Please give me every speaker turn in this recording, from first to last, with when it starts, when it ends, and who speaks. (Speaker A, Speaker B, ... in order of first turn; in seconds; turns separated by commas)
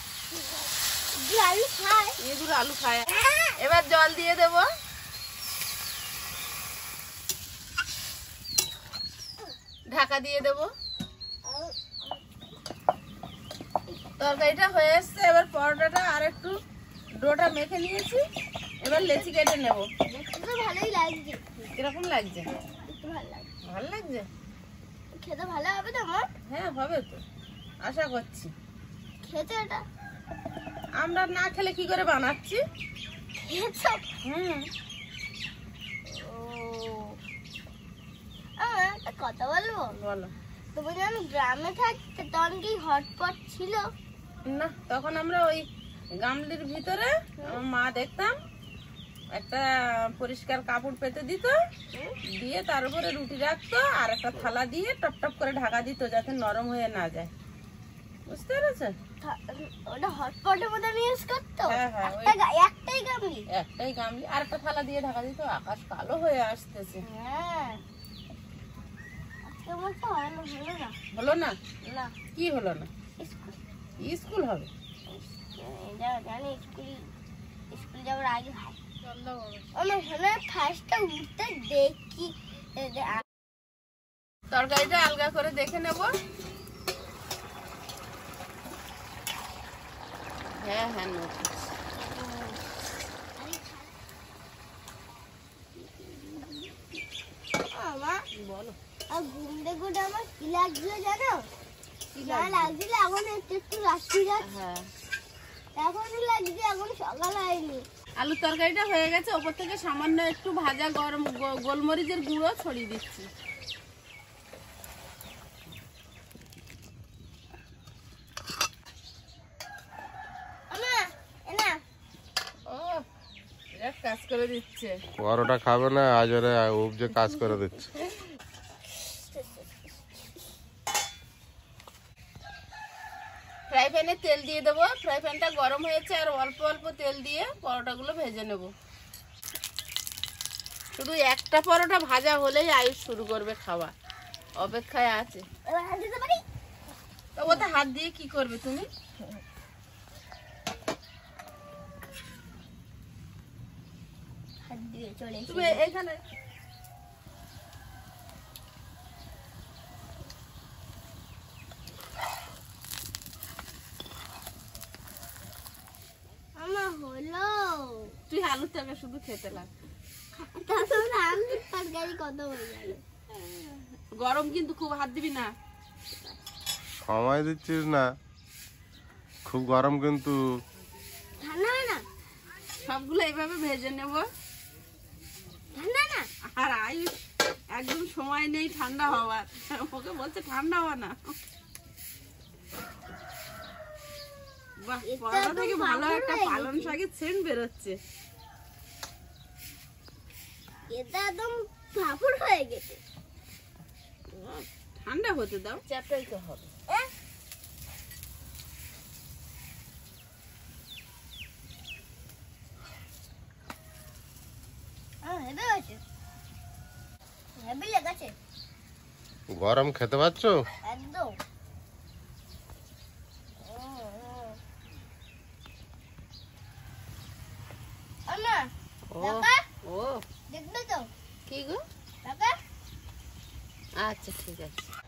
Speaker A: 0.3-2.2, Speaker B: 2.2-3.1, Speaker A: 3.1-3.5, Speaker B: 3.6-4.7, Speaker B: 9.9-10.7, Speaker A: 11.4-12.2, Speaker B: 14.2-16.6, Speaker B: 17.2-18.2, Speaker B: 18.8-19.9, Speaker A: 18.9-19.3, Speaker A: 20.1-21.4, Speaker B: 21.7-22.5, Speaker A: 22.9-23.5, Speaker B: 23.6-24.3, Speaker A: 25.1-26.3, Speaker B: 26.5-27.2, Speaker B: 27.8-28.5, Speaker A: 29.2-29.8, Speaker B: 31.0-32.6, Speaker A: 33.4-34.1, Speaker B: 34.2-34.7, Speaker A: 36.0-37.2, Speaker A: 38.6-39.9, Speaker B: 39.9-40.3, Speaker A: 40.8-43.9, Speaker B: 44.5-45.7, Speaker B: 46.2-48.3, Speaker B: 49.3-51.6, Speaker A: 51.9-52.2, Speaker B: 52.4-57.3, Speaker B: 58.3-58.9, Speaker A: 59.2-63.5, Speaker B: 61.7-62.4, Speaker B: 63.5-67.0, Speaker A: 67.0-67.8, Speaker A: 69.5-71.0, Speaker B: 71.1-71.6, Speaker A: 71.8-72.2, Speaker B: 72.4-72.9, Speaker A: 73.2-73.6, Speaker B: 74.0-74.7, Speaker A: 75.1-77.1, Speaker A: 77.7-78.8, Speaker B: 79.0-79.7, Speaker A: 79.8-83.2, Speaker B: 84.5-86.1, Speaker B: 90.6-91.5, Speaker A: 92.1-92.6, Speaker A: 93.4-94.0, Speaker A: 95.8-97.0, Speaker A: 97.7-98.2, Speaker B: 98.3-98.8, Speaker A: 99.1-101.5, Speaker B: 102.1-102.7, Speaker A: 102.2-104.5, Speaker B: 104.4-104.9, Speaker A: 105.8-107.9, Speaker B: 108.2-113.3, Speaker A: 120.7-121.8, Speaker B: 122.7-123.0, Speaker B: 123.8-125.0, Speaker C: 125.2-127.9, Speaker A: 129.0-129.9, Speaker B: 133.7-138.7, Speaker B: 141.0-143.9, Speaker B: 144.6-145.4, Speaker A: 145.7-146.4, Speaker B: 147.4-148.9, Speaker A: 154.6-155.8, Speaker B: 155.5-156.2, Speaker A: 166.6-168.2, Speaker B: 168.3-169.7, Speaker A: 170.4-173.0, Speaker B: 171.2-171.6, Speaker B: 173.3-175.5, Speaker C: 177.0-178.1, Speaker C: 179.4-180.4, Speaker A: 181.4-182.0, Speaker B: 182.8-184.3, Speaker A: 185.7-186.3, Speaker B: 186.4-187.2, Speaker B: 187.7-191.4, Speaker B: 194.8-198.0, Speaker A: 195.0-197.0, Speaker A: 200.9-203.0, Speaker B: 204.3-206.7, Speaker A: 215.2-216.0, Speaker A: 217.6-218.3, Speaker C: 219.5-220.6, Speaker A: 220.8-221.4, Speaker A: 223.6-224.6, Speaker A: 228.3-228.7, Speaker B: 229.1-230.2, Speaker A: 229.2-229.6, Speaker A: 230.5-231.1, Speaker B: 231.5-231.8, Speaker A: 232.2-232.6, Speaker B: 234.0-234.7